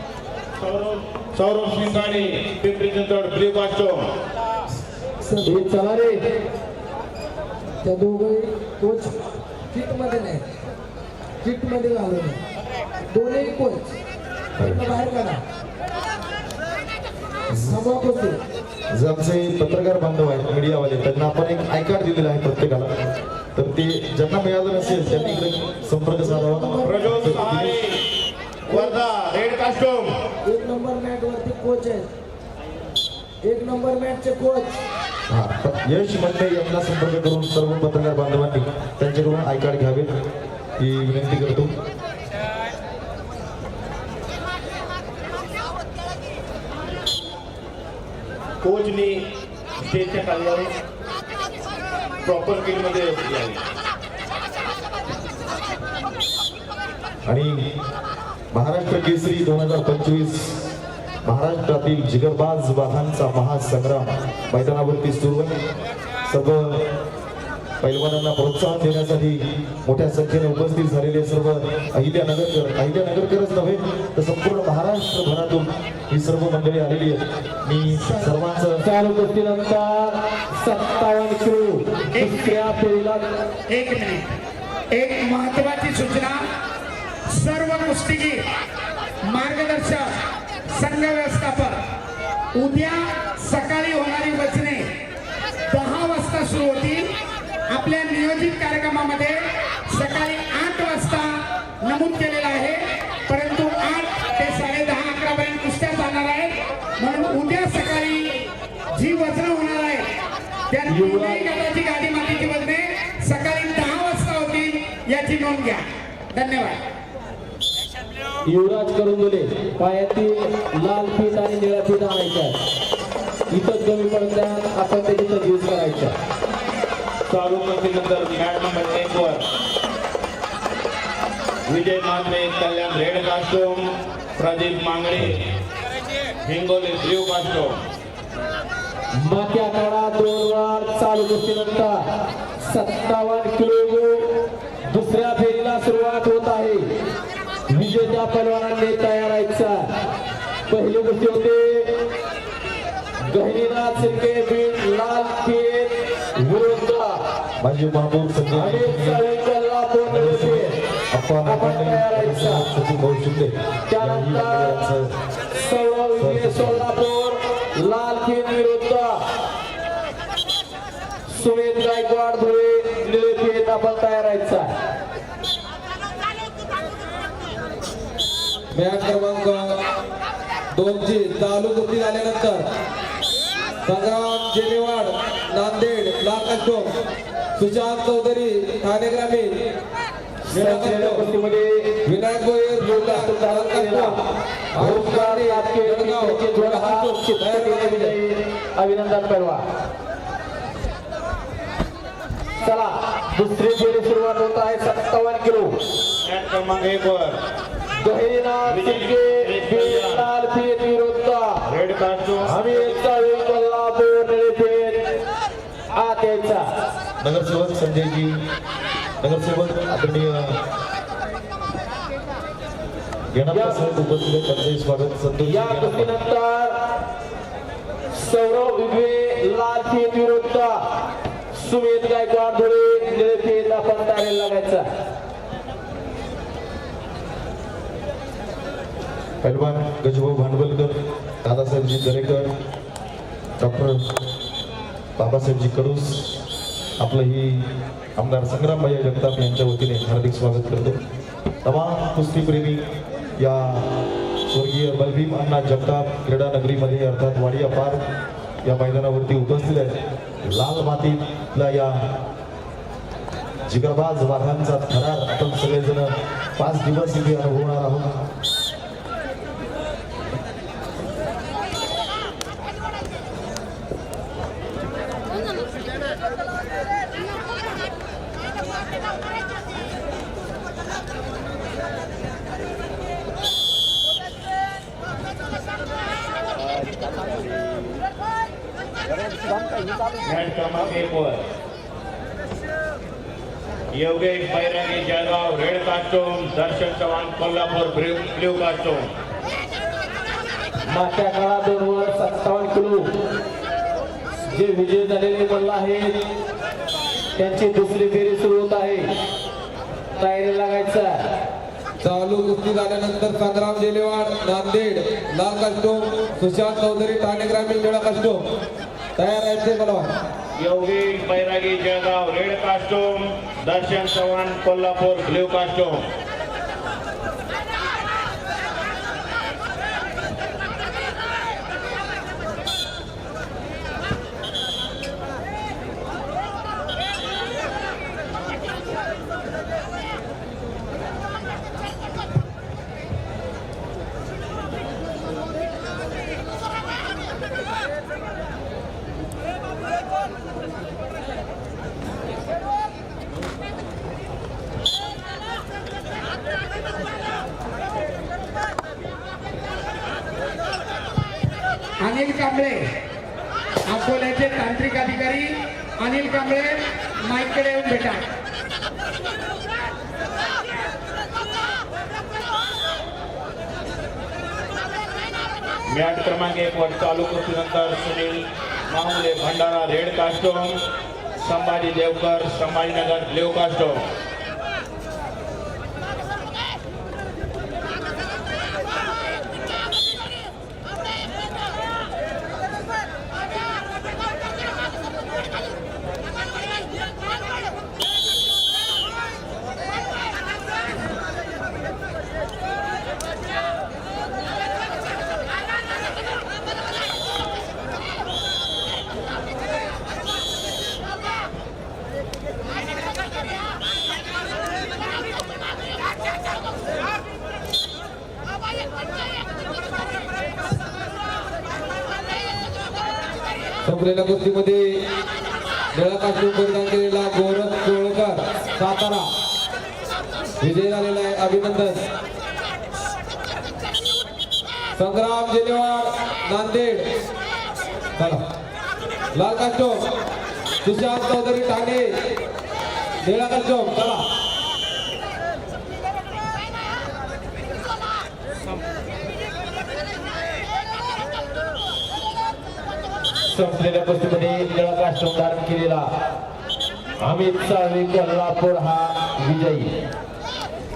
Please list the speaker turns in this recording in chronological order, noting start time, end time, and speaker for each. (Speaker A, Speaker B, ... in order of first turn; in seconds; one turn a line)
Speaker A: 0.6-4.0
Speaker B: 5.4-6.2
Speaker C: 7.8-9.1
Speaker C: 9.7-10.3
Speaker D: 14.6-14.9
Speaker C: 14.9-15.3
Speaker D: 17.5-17.9
Speaker C: 17.8-18.4
Speaker D: 18.9-22.9
Speaker D: 23.5-27.8
Speaker C: 24.8-25.4
Speaker C: 26.2-27.0
Speaker A: 26.8-28.0
Speaker A: 28.7-30.1
Speaker C: 30.5-32.0
Speaker C: 33.4-34.7
Speaker D: 35.3-40.1
Speaker D: 40.8-41.7
Speaker A: 48.6-49.2
Speaker A: 49.8-50.7
Speaker A: 52.2-53.6
Speaker D: 57.3-57.6
Speaker D: 58.5-60.7
Speaker D: 61.2-65.5
Speaker D: 66.3-66.8
Speaker D: 67.8-78.8
Speaker E: 78.0-78.3
Speaker B: 78.8-83.2
Speaker E: 82.1-82.7
Speaker E: 83.7-84.3
Speaker E: 84.9-86.4
Speaker E: 87.3-88.4
Speaker E: 89.3-90.1
Speaker E: 90.7-91.8
Speaker E: 92.5-94.8
Speaker E: 95.7-97.1
Speaker E: 97.7-108.3
Speaker E: 108.9-110.0
Speaker E: 110.7-116.8
Speaker B: 110.9-111.5
Speaker B: 118.5-122.6
Speaker B: 123.5-126.1
Speaker A: 127.3-129.4
Speaker A: 131.7-135.4
Speaker A: 136.4-137.8
Speaker B: 139.2-142.0
Speaker B: 142.6-146.8
Speaker B: 147.7-149.8
Speaker B: 150.7-152.0
Speaker B: 153.3-157.2
Speaker D: 157.6-159.2
Speaker B: 158.5-160.8
Speaker D: 160.1-165.1
Speaker B: 161.4-162.7
Speaker B: 163.9-164.8
Speaker B: 165.5-169.2
Speaker D: 166.2-166.8
Speaker B: 171.3-174.7
Speaker F: 178.7-179.7
Speaker F: 180.7-182.7
Speaker F: 183.8-186.9
Speaker F: 187.6-189.5
Speaker B: 190.5-191.9
Speaker F: 190.5-191.2
Speaker F: 192.1-194.2
Speaker B: 192.7-194.2
Speaker F: 194.7-198.2
Speaker B: 194.8-199.6
Speaker B: 202.6-205.7
Speaker A: 206.2-207.4
Speaker B: 208.0-211.6
Speaker A: 208.6-210.3
Speaker A: 211.6-213.0
Speaker B: 212.4-215.0
Speaker B: 215.9-216.6
Speaker D: 217.2-218.4
Speaker D: 219.2-220.5
Speaker D: 223.3-226.1
Speaker B: 223.5-223.8
Speaker B: 225.4-226.7
Speaker B: 228.1-230.8
Speaker B: 231.5-234.8
Speaker D: 239.4-242.5
Speaker D: 243.6-244.0
Speaker D: 245.2-246.4
Speaker D: 247.0-251.0
Speaker D: 251.6-252.8
Speaker D: 253.4-253.9
Speaker D: 254.5-258.0
Speaker D: 258.6-262.0
Speaker D: 263.7-268.1
Speaker A: 290.2-291.4
Speaker A: 293.9-299.1
Speaker B: 300.9-303.0
Speaker B: 304.4-306.1
Speaker B: 307.4-309.1
Speaker B: 310.2-311.2
Speaker F: 312.0-318.4
Speaker F: 319.2-320.1
Speaker A: 320.6-326.0
Speaker E: 362.0-362.9
Speaker E: 363.9-368.2
Speaker A: 375.9-380.7
Speaker A: 381.4-384.0
Speaker F: 423.8-425.0
Speaker F: 425.9-429.3
Speaker F: 430.6-432.0
Speaker F: 434.9-437.1
Speaker F: 438.2-438.4
Speaker F: 439.3-440.0
Speaker F: 440.8-442.1
Speaker F: 443.2-444.2
Speaker B: 453.4-456.1
Speaker B: 457.2-459.9